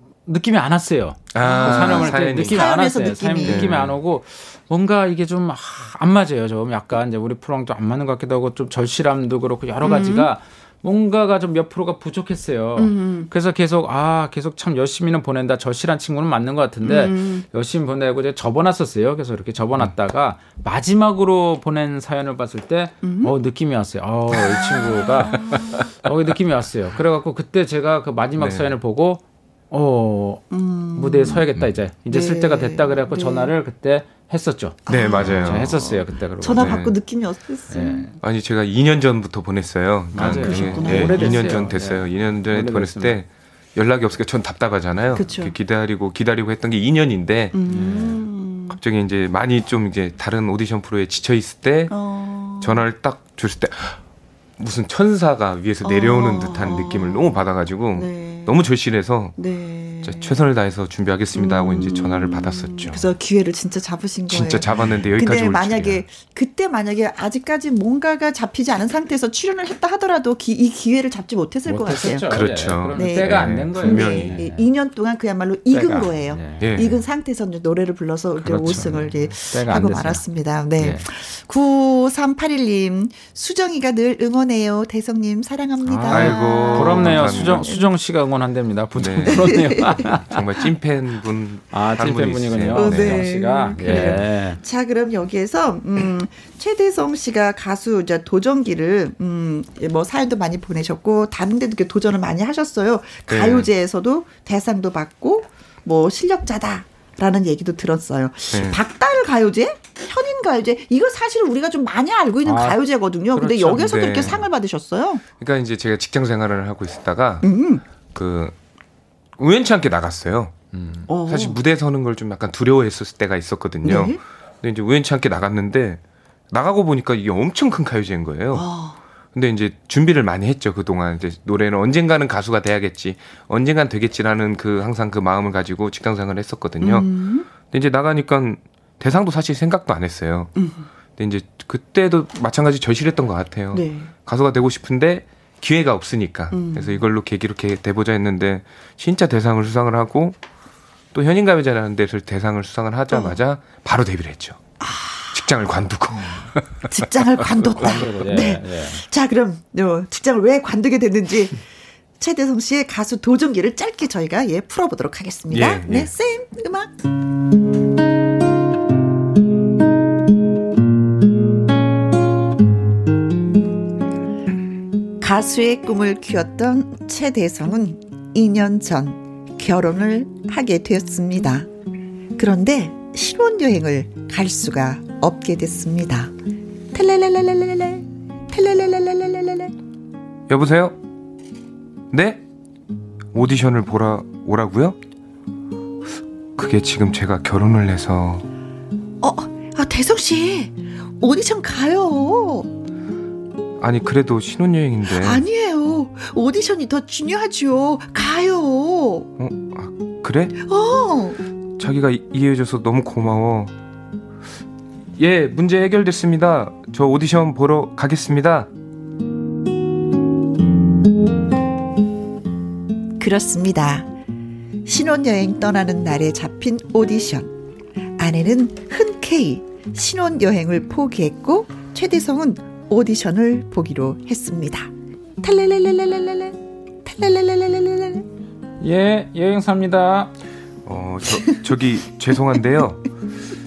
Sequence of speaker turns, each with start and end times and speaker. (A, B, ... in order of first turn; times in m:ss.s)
0:00.3-0:36.9 A
0:01.3-0:02.7 B
0:01.4-0:03.8 C
0:03.4-0:04.0 B
0:09.8-0:10.3 C
0:12.8-0:13.3 C
0:16.8-0:17.4 C
0:23.0-0:23.3 C
0:24.4-0:25.9 C
0:28.4-0:28.7 B
0:30.5-0:31.5 C
0:32.1-0:33.6 C
0:34.9-0:38.1 C
0:34.9-0:35.8 B
0:36.5-0:36.9 B
0:37.7-0:38.2 A
0:38.2-0:47.6 B
0:40.1-0:43.2 A
0:40.2-0:41.6 C
0:45.1-0:45.6 C
0:47.5-0:48.8 C
0:47.7-0:48.2 A
0:48.7-0:51.9 B
0:51.9-0:52.8 C
0:52.6-0:54.0 B
0:54.6-0:59.4 B
0:55.8-0:57.3 C
0:58.0-0:58.6 C
0:59.4-1:00.4 C
1:00.0-1:03.1 B
1:01.3-1:12.3 C
1:04.3-1:06.0 B
1:11.7-1:14.7 A
1:12.3-1:14.4 B
1:12.9-1:27.9 C
1:15.7-1:16.8 A
1:16.6-1:17.0 B
1:18.4-1:20.2 A
1:20.8-1:21.0 A
1:25.8-1:30.4 A
1:26.1-1:27.7 B
1:29.0-1:33.3 B
1:29.2-1:30.1 C
1:31.7-1:34.6 A
1:32.7-1:55.2 C
1:33.8-1:34.2 B
1:43.3-1:43.7 B
1:48.5-1:48.8 B
1:52.4-1:52.8 A
1:53.3-1:54.4 A
1:53.7-1:54.4 B
1:55.3-1:57.5 B
1:57.4-1:57.8 C
1:58.1-1:58.6 B
1:59.4-2:00.5 B
2:00.7-2:01.1 A
2:01.1-2:01.6 C
2:01.2-2:06.0 B
2:03.8-2:04.2 C
2:06.5-2:08.7 B
2:08.5-2:09.0 C
2:09.3-2:20.5 B
2:16.8-2:17.5 C
2:20.6-2:20.9 C
2:21.2-2:30.4 B
2:23.7-2:24.1 C
2:26.5-2:27.0 C
2:31.1-2:34.6 B
2:34.8-2:35.4 C
2:35.3-2:36.8 B
2:36.8-2:41.6 C
2:37.8-2:39.0 A
2:42.2-2:46.9 C
2:45.5-2:46.1 B
2:55.2-3:01.7 C
3:02.4-3:06.3 C
3:06.9-3:09.7 C
3:10.5-3:11.0 B
3:12.1-3:12.4 B
3:13.3-3:15.0 B
3:16.6-3:18.5 B
3:19.2-3:22.7 C
3:23.8-3:25.4 B
3:25.1-3:29.3 C
3:29.4-3:30.6 B
3:30.6-3:31.4 C
3:31.8-3:33.7 B
3:35.2-3:38.7 B
3:43.2-3:44.1 C
3:44.8-3:47.5 C
3:48.2-3:54.9 C
3:55.4-3:58.3 C
3:58.8-4:00.3 A
4:00.9-4:03.0 B